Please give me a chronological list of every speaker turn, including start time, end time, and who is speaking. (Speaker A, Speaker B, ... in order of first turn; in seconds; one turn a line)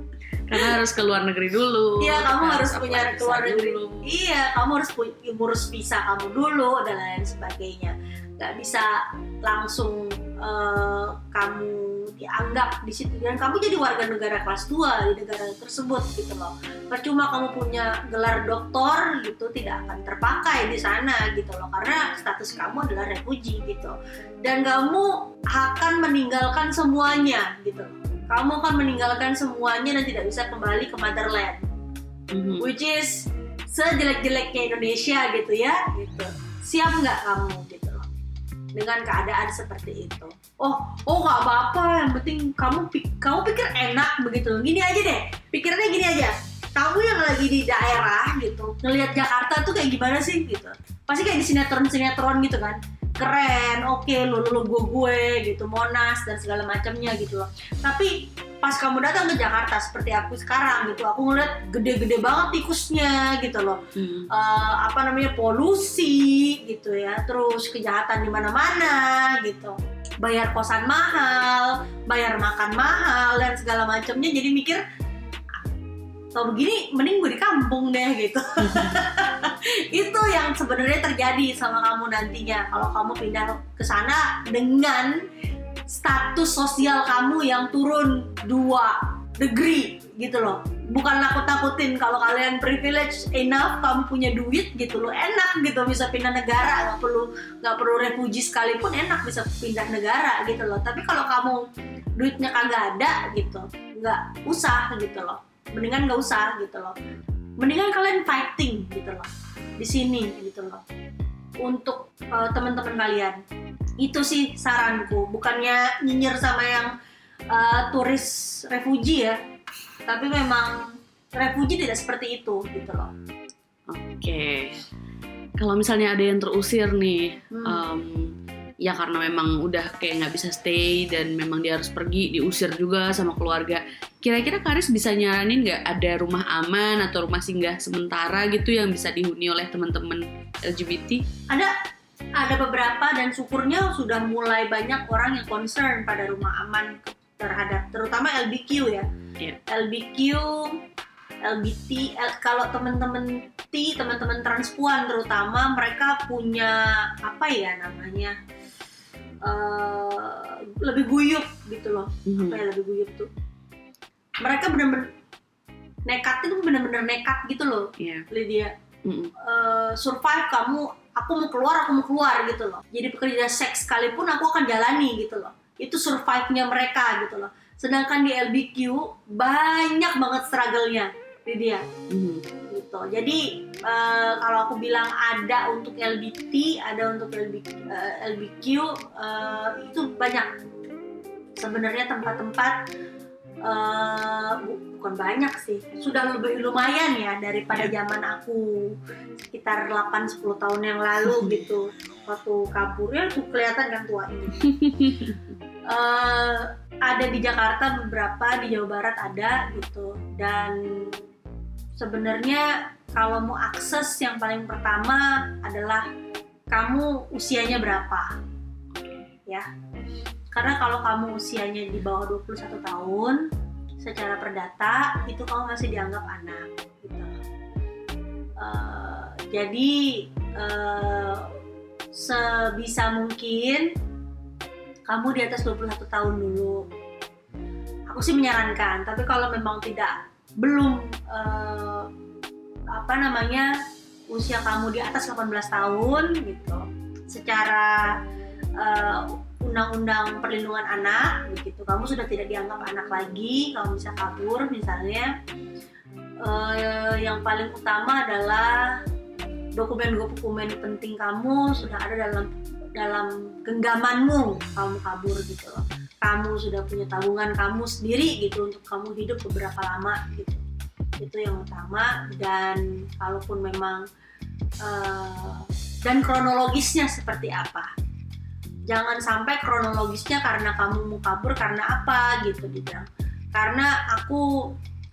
Speaker A: 0.5-4.1
Speaker B: 2.0-31.6
Speaker A: 32.3-32.7
Speaker B: 32.6-38.1
Speaker B: 38.8-63.8
Speaker A: 64.0-64.3
Speaker B: 64.3-74.8
Speaker B: 76.3-85.2
Speaker A: 78.7-79.0
Speaker B: 85.9-106.9
Speaker B: 107.6-110.8
Speaker B: 111.6-113.4
Speaker B: 114.0-116.9
Speaker B: 117.5-119.4
Speaker B: 120.1-123.1
Speaker A: 123.9-124.8
Speaker A: 125.6-141.2
Speaker B: 127.5-127.8
Speaker B: 142.4-149.1
Speaker B: 149.7-150.8
Speaker B: 151.4-158.4
Speaker B: 159.4-163.3
Speaker A: 162.3-162.6
Speaker B: 164.4-165.1
Speaker B: 166.1-168.7
Speaker A: 168.0-168.3
Speaker A: 169.1-169.3
Speaker B: 169.4-181.8
Speaker A: 182.1-182.4
Speaker B: 182.7-190.5
Speaker B: 191.6-192.8
Speaker B: 193.7-199.0
Speaker B: 199.5-204.7
Speaker A: 201.3-201.6
Speaker A: 204.6-205.5
Speaker B: 205.9-211.2
Speaker B: 212.0-216.1
Speaker B: 216.7-218.3
Speaker A: 218.9-219.3
Speaker B: 220.5-223.5
Speaker B: 224.0-227.4
Speaker B: 228.6-231.5
Speaker B: 232.1-233.9
Speaker B: 235.1-236.9
Speaker B: 238.1-242.1
Speaker B: 242.9-243.7
Speaker B: 244.3-248.1
Speaker B: 248.8-255.3
Speaker B: 256.4-259.0
Speaker B: 259.8-270.6
Speaker B: 271.2-274.1
Speaker B: 274.8-277.9
Speaker B: 278.9-284.7